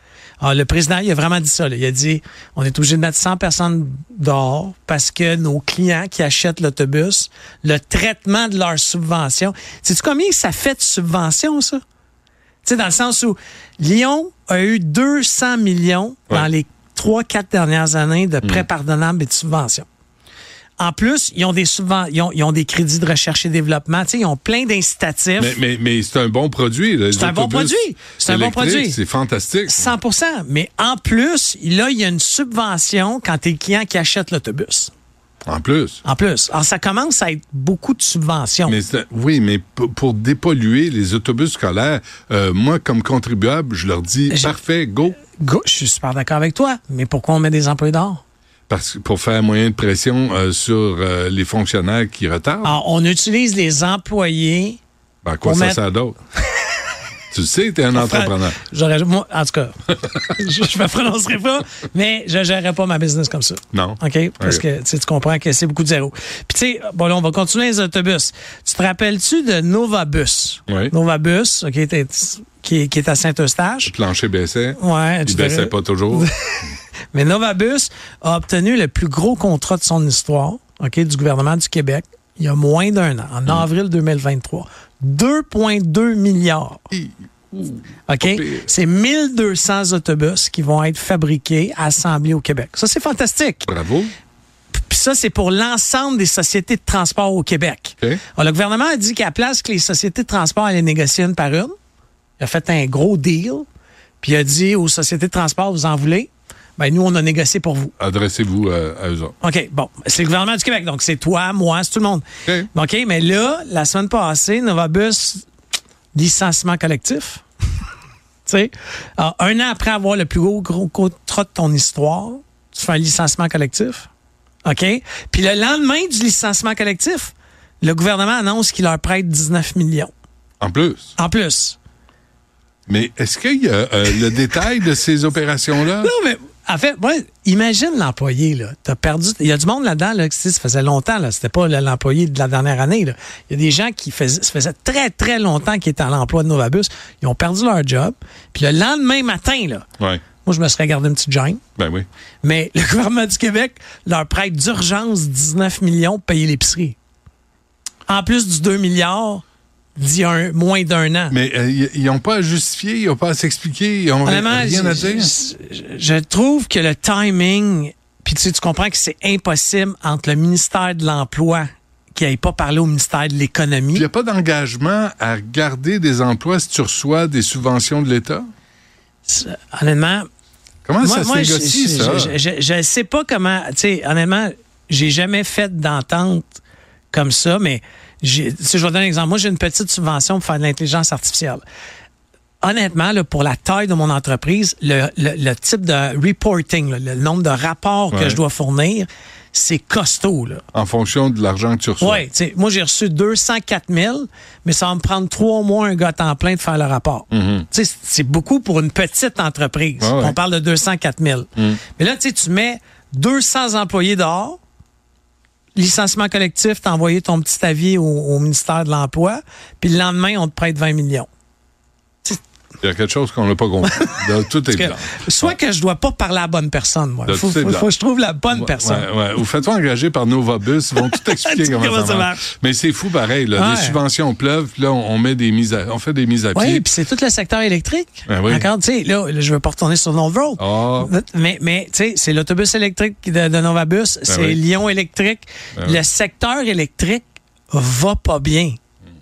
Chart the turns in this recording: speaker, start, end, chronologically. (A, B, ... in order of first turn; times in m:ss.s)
0:00.4-0:11.8 A
0:12.6-0:19.9 A
0:20.8-0:25.6 A
0:25.4-0:29.9 B
0:27.1-0:29.0 A
0:29.7-0:34.9 A
0:35.5-0:36.0 B
0:36.0-0:38.8 A
0:38.6-0:45.2 B
0:44.3-0:44.6 A
0:45.4-0:48.2 A
0:48.7-0:52.8 B
0:52.6-0:54.8 A
0:55.2-0:56.2 B
0:55.4-0:55.8 A
0:57.3-0:58.6 B
0:57.9-1:13.9 A
1:03.7-1:04.6 B
1:10.7-1:10.9 B
1:13.8-1:16.3 B
1:14.8-1:26.8 A
1:26.9-1:28.7 B
1:28.1-1:33.7 A
1:33.6-1:34.1 B
1:34.8-1:41.7 A
1:42.4-1:43.7 A
1:44.2-1:47.9 A
1:48.0-1:49.3 B
1:49.4-1:55.4 A
1:56.1-1:57.4 A
1:58.4-2:04.1 A
2:04.6-2:10.1 A
2:10.6-2:11.1 B
2:11.2-2:11.8 A
2:12.9-2:16.1 B
2:16.0-2:29.9 A
2:30.4-2:31.6 A
2:31.8-2:32.1 B
2:32.4-2:37.0 A
2:38.1-2:39.4 A
2:40.0-2:41.3 A
2:41.3-2:45.3 B
2:44.2-2:54.0 A
2:53.9-2:58.5 B
2:59.2-3:00.3 A
3:00.8-3:02.4 B
3:01.0-3:06.6 A
3:07.1-3:11.6 A
3:12.6-3:20.6 A
3:18.1-3:18.4 B
3:20.7-3:22.2 B
3:22.0-3:34.6 A
3:27.3-3:27.6 B
3:30.0-3:30.4 B
3:35.8-3:41.3 A
3:42.8-3:45.6 B
3:43.8-3:49.1 A
3:47.3-3:47.9 B
3:48.5-3:56.8 B
3:51.0-3:52.5 A
3:53.5-3:54.0 A
3:56.5-4:08.8 A
3:58.3-3:58.7 B
4:00.6-4:01.1 B
4:04.3-4:04.6 B